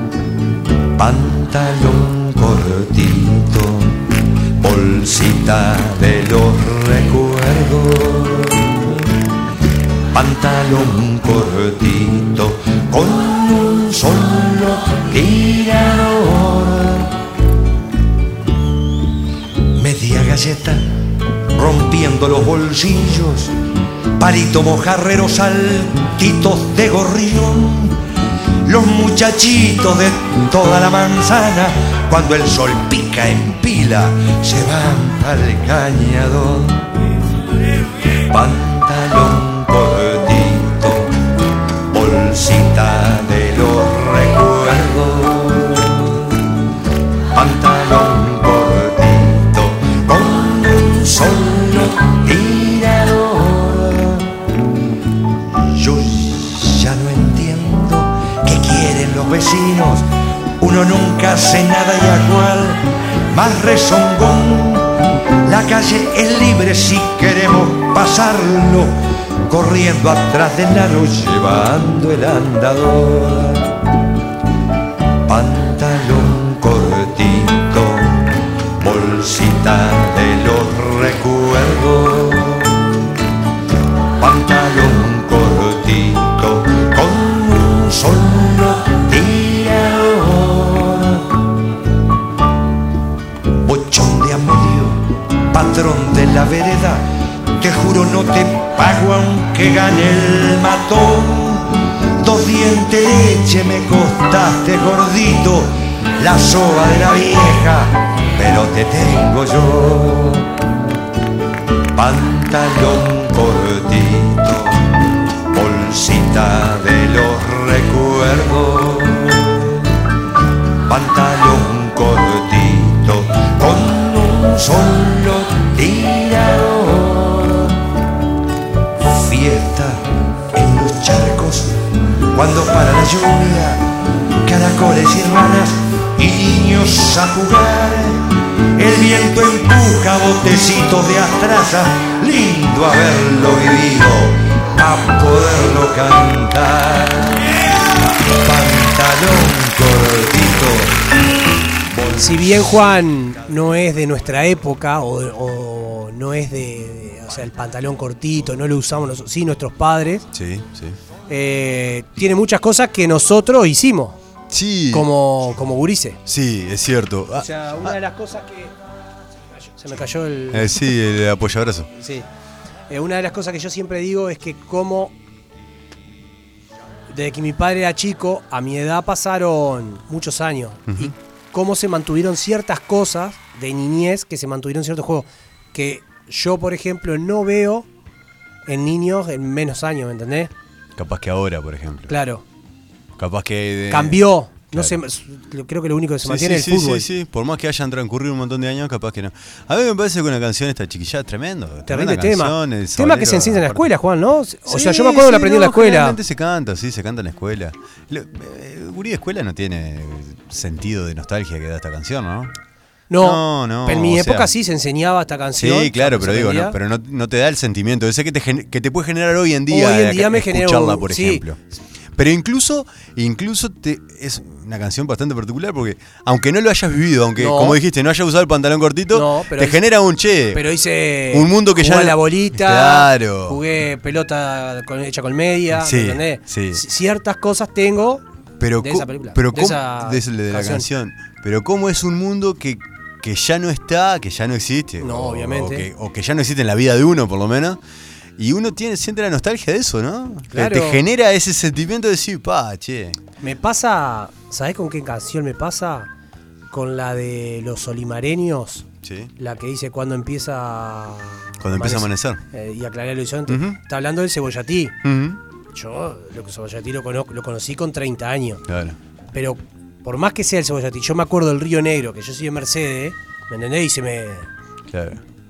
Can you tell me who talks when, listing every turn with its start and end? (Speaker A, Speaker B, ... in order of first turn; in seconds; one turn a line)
Speaker A: 0.9-4.0
Speaker A: 4.6-9.1
Speaker A: 10.1-17.1
Speaker A: 19.7-20.8
Speaker A: 21.5-23.5
Speaker A: 24.2-28.0
Speaker A: 28.6-36.9
Speaker A: 38.3-41.1
Speaker A: 41.9-46.4
Speaker A: 47.3-54.3
Speaker A: 55.7-60.1
Speaker A: 60.6-68.9
Speaker A: 69.5-73.7
Speaker A: 75.2-78.2
Speaker A: 78.8-82.9
Speaker A: 84.2-91.3
Speaker A: 93.6-97.0
Speaker A: 97.6-110.5
Speaker A: 111.9-114.9
Speaker A: 115.5-119.8
Speaker A: 120.9-127.8
Speaker A: 129.1-131.7
Speaker A: 132.3-133.8
Speaker A: 134.4-138.2
Speaker A: 138.8-147.5
Speaker A: 148.3-151.1
Speaker A: 151.9-152.7
Speaker B: 152.2-160.2
Speaker C: 160.3-161.0
Speaker B: 161.3-164.2
Speaker C: 164.5-165.1
Speaker B: 164.9-166.2
Speaker C: 166.2-167.9
Speaker B: 167.3-168.7
Speaker B: 169.8-170.8
Speaker C: 170.5-171.9
Speaker B: 171.9-172.2
Speaker B: 172.9-175.1
Speaker B: 177.1-187.9
Speaker C: 180.9-181.1
Speaker B: 188.7-190.5
Speaker C: 190.9-192.1
Speaker B: 192.1-192.4
Speaker C: 193.2-195.0
Speaker B: 193.9-197.1
Speaker C: 196.2-203.9
Speaker B: 201.9-206.2
Speaker C: 204.7-212.5
Speaker B: 213.1-216.8
Speaker C: 213.2-214.5
Speaker C: 215.6-221.6
Speaker B: 219.7-221.4
Speaker C: 222.1-230.6
Speaker B: 227.4-227.8
Speaker B: 229.1-229.8
Speaker B: 230.5-238.2
Speaker C: 231.3-233.6
Speaker C: 235.7-236.8
Speaker C: 238.6-247.8
Speaker B: 238.8-240.9
Speaker B: 245.0-245.9
Speaker C: 248.4-253.2
Speaker B: 250.5-251.0
Speaker B: 253.4-256.1
Speaker B: 256.7-258.9
Speaker C: 259.0-259.3
Speaker B: 259.4-264.9
Speaker C: 261.6-262.4
Speaker C: 263.5-263.8
Speaker C: 265.0-265.4
Speaker B: 265.7-268.6
Speaker C: 268.7-269.0
Speaker B: 269.3-274.5
Speaker C: 274.9-275.2